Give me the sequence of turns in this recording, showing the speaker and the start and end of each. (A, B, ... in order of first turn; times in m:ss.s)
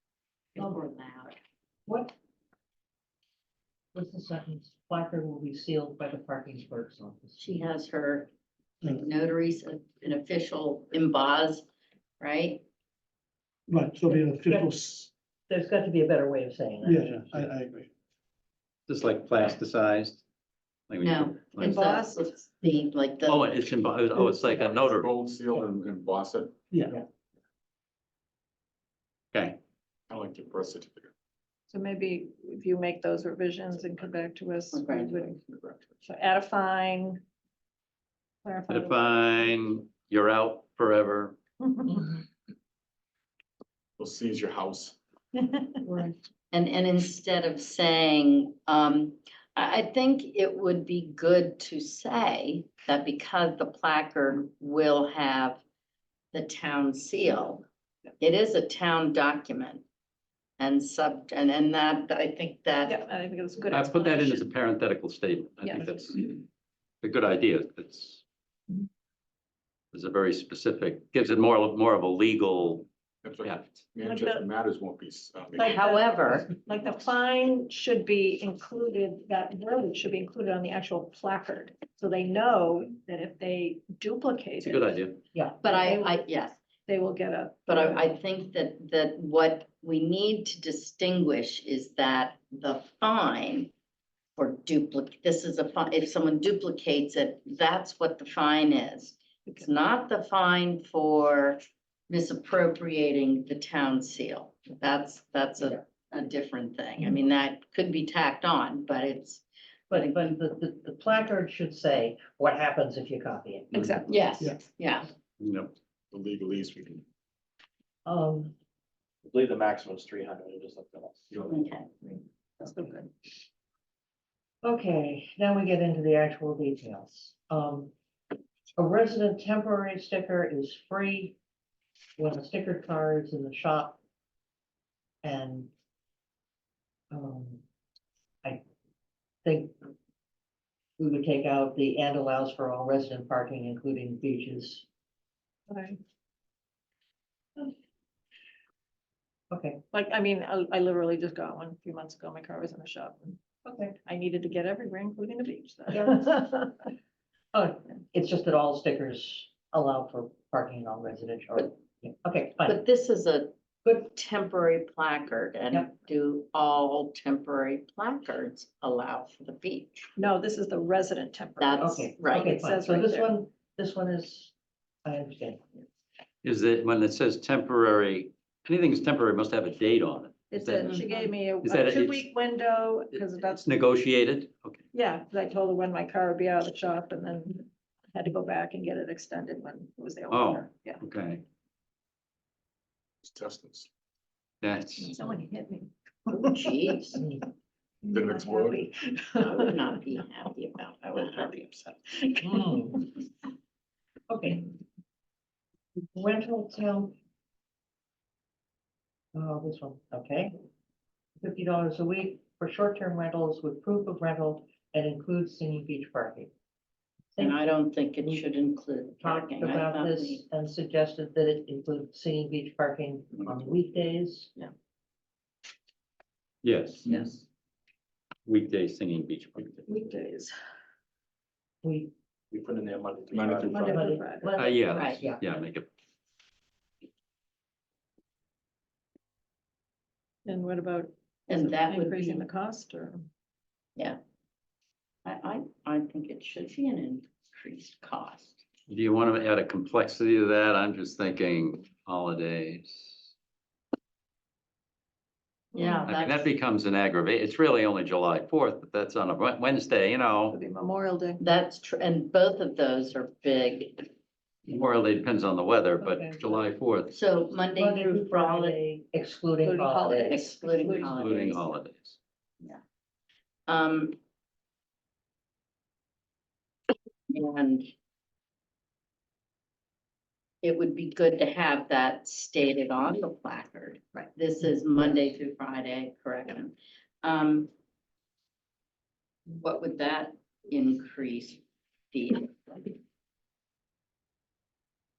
0:00.6-0:01.3 A
0:01.8-0:02.1 B
0:03.9-0:07.5 B
0:07.4-0:08.3 A
0:08.9-0:11.7 A
0:12.2-0:12.6 A
0:13.7-0:15.1 C
0:14.1-0:14.7 B
0:15.5-0:17.4 B
0:16.8-0:17.9 C
0:18.9-0:20.2 D
0:20.9-0:21.8 D
0:21.0-0:23.7 A
0:21.6-0:22.5 E
0:23.2-0:25.1 D
0:24.1-0:24.6 C
0:24.7-0:26.6 F
0:26.7-0:27.0 C
0:29.3-0:29.6 D
0:30.1-0:31.1 F
0:31.7-0:35.4 E
0:33.7-0:34.2 F
0:34.7-0:35.3 A
0:35.4-0:36.0 F
0:36.0-0:37.2 E
0:38.4-0:39.5 E
0:38.7-0:41.4 D
0:41.6-0:42.1 E
0:44.0-0:45.0 F
0:45.8-0:46.1 E
0:46.5-0:55.6 A
0:56.3-0:57.6 A
0:58.2-0:59.8 A
1:00.6-1:03.0 A
1:02.8-1:04.5 E
1:03.7-1:06.4 D
1:05.6-1:06.0 E
1:07.0-1:08.2 D
1:09.9-1:12.9 D
1:13.2-1:15.8 F
1:13.4-1:13.8 D
1:14.0-1:14.4 E
1:15.6-1:16.5 A
1:15.6-1:25.1 E
1:24.6-1:25.2 D
1:25.3-1:25.6 B
1:25.6-1:26.6 A
1:25.6-1:26.3 E
1:26.8-1:28.1 E
1:27.7-1:33.7 A
1:34.4-1:50.1 A
1:49.9-1:54.0 B
1:53.7-1:54.1 E
1:54.1-1:55.1 A
1:55.4-1:55.7 D
1:56.1-1:57.0 F
1:58.0-1:58.5 B
1:59.2-2:01.5 G
2:01.5-2:01.9 A
2:02.6-2:03.1 E
2:04.6-2:07.9 B
2:08.8-2:11.4 B
2:12.2-2:14.0 B
2:15.2-2:15.7 B
2:17.1-2:17.6 B
2:19.4-2:19.8 B
2:21.0-2:24.8 B
2:25.7-2:26.0 E
2:29.5-2:29.8 B
2:29.9-2:33.4 E
2:33.6-2:34.0 B
2:34.0-2:36.7 E
2:35.9-2:36.4 B
2:37.5-2:42.8 B
2:42.6-2:50.1 A
2:50.2-2:53.3 E
2:51.6-2:52.6 A
2:51.8-2:54.5 B
2:55.0-2:55.7 B
2:56.4-3:02.2 D
3:00.5-3:03.8 E
3:03.6-3:04.8 D
3:04.9-3:11.0 E
3:10.3-3:11.4 D
3:13.2-3:13.9 F
3:14.6-3:15.1 D
3:15.0-3:17.2 E
3:16.3-3:17.2 A
3:18.0-3:20.0 E
3:18.1-3:18.8 F
3:19.4-3:21.5 A
3:21.1-3:22.7 E
3:22.4-3:23.0 B
3:24.3-3:24.6 B
3:26.1-3:27.1 B
3:29.3-3:30.5 B
3:31.4-3:36.5 B
3:37.3-3:38.4 B
3:37.4-3:40.4 A
3:39.2-3:44.5 B
3:43.4-3:43.7 F
3:46.6-3:47.4 D
3:48.4-3:49.8 D
3:49.8-3:50.5 E
3:51.8-3:52.1 B
3:52.5-3:53.8 G
3:53.3-3:54.0 F
3:53.7-3:54.5 E
3:53.8-3:55.4 B
3:54.6-3:55.9 D
3:54.9-3:55.2 A
4:00.4-4:03.3 E
4:01.5-4:02.4 A
4:05.2-4:08.6 A
4:08.9-4:13.3 D
4:15.7-4:16.1 E
4:15.7-4:16.5 A
4:16.0-4:20.6 D
4:20.5-4:21.4 E
4:21.4-4:24.1 A
4:24.7-4:27.1 D
4:26.0-4:26.6 B
4:27.1-4:28.8 A
4:27.8-4:30.4 B
4:29.6-4:31.5 E
4:30.2-4:31.6 A
4:30.9-4:32.2 D
4:33.7-4:34.2 A
4:37.3-4:37.9 A
4:40.6-4:47.7 A
4:49.5-4:52.9 A